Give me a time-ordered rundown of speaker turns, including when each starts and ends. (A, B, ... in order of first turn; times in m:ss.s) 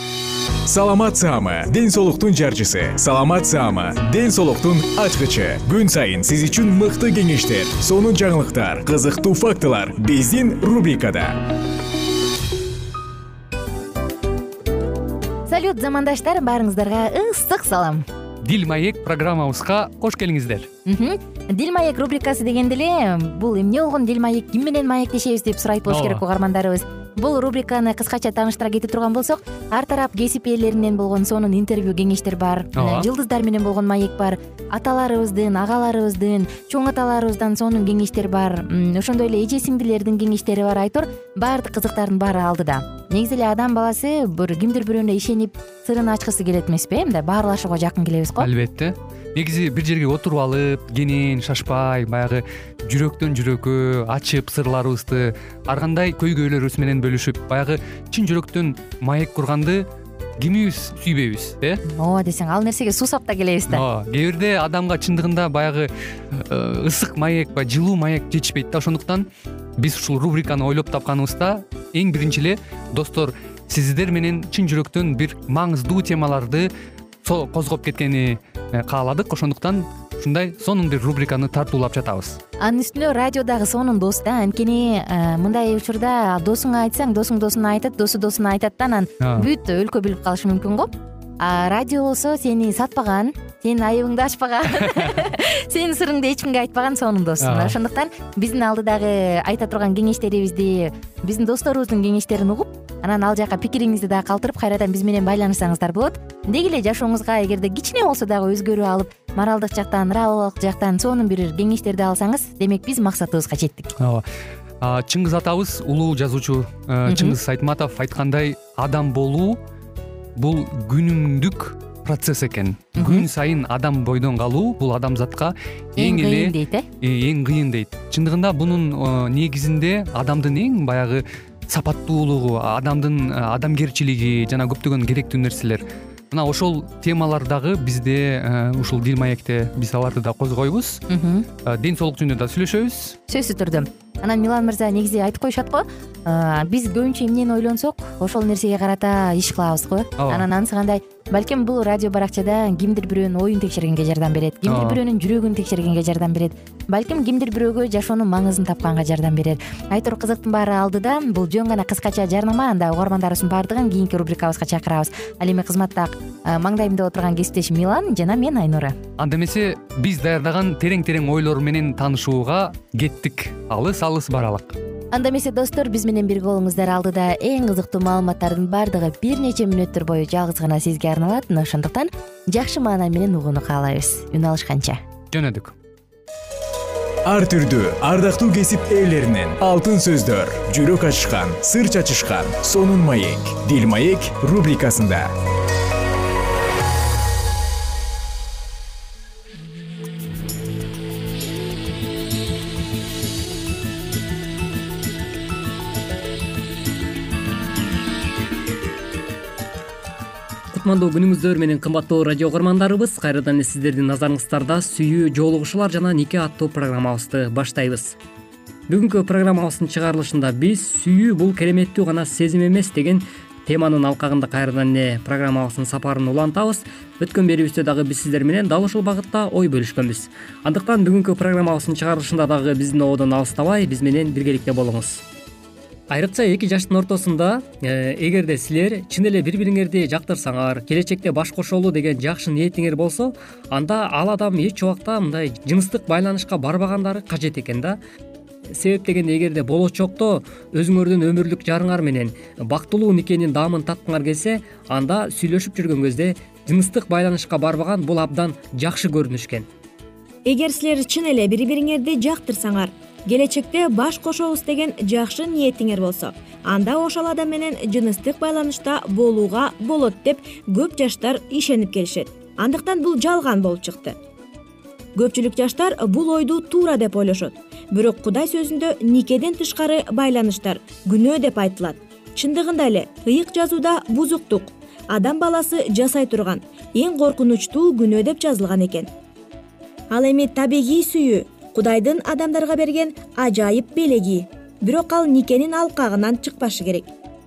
0:00.7-0:11.4 A
0:15.5-0:18.0 B
0:18.4-0:20.7 C
0:20.8-0:48.5 B
0:25.9-0:26.2 C
0:32.8-0:33.1 C
0:48.4-0:59.9 C
1:00.4-1:01.8 C
1:01.9-1:03.8 B
1:03.7-1:09.3 C
1:09.8-1:16.7 C
1:17.2-1:22.4 C
1:22.6-1:54.0 B
1:29.2-1:29.5 C
1:37.4-1:37.8 C
1:54.0-1:54.2 C
1:54.8-1:59.6 C
1:57.1-1:57.4 B
2:00.4-2:21.0 C
2:03.0-2:03.3 B
2:06.0-2:06.9 B
2:21.1-2:21.5 B
2:21.6-2:23.2 C
2:23.3-2:49.0 B
2:30.2-2:30.5 C
2:34.7-2:35.0 C
2:49.2-2:54.8 C
2:55.1-3:05.0 B
3:05.3-3:05.7 C
3:07.3-3:15.3 A
3:30.7-3:38.2 D
3:38.9-3:55.2 D
3:56.1-4:08.0 D
4:08.7-4:19.7 D
4:20.5-4:34.2 E
4:35.2-4:49.1 E
4:50.1-4:57.1 E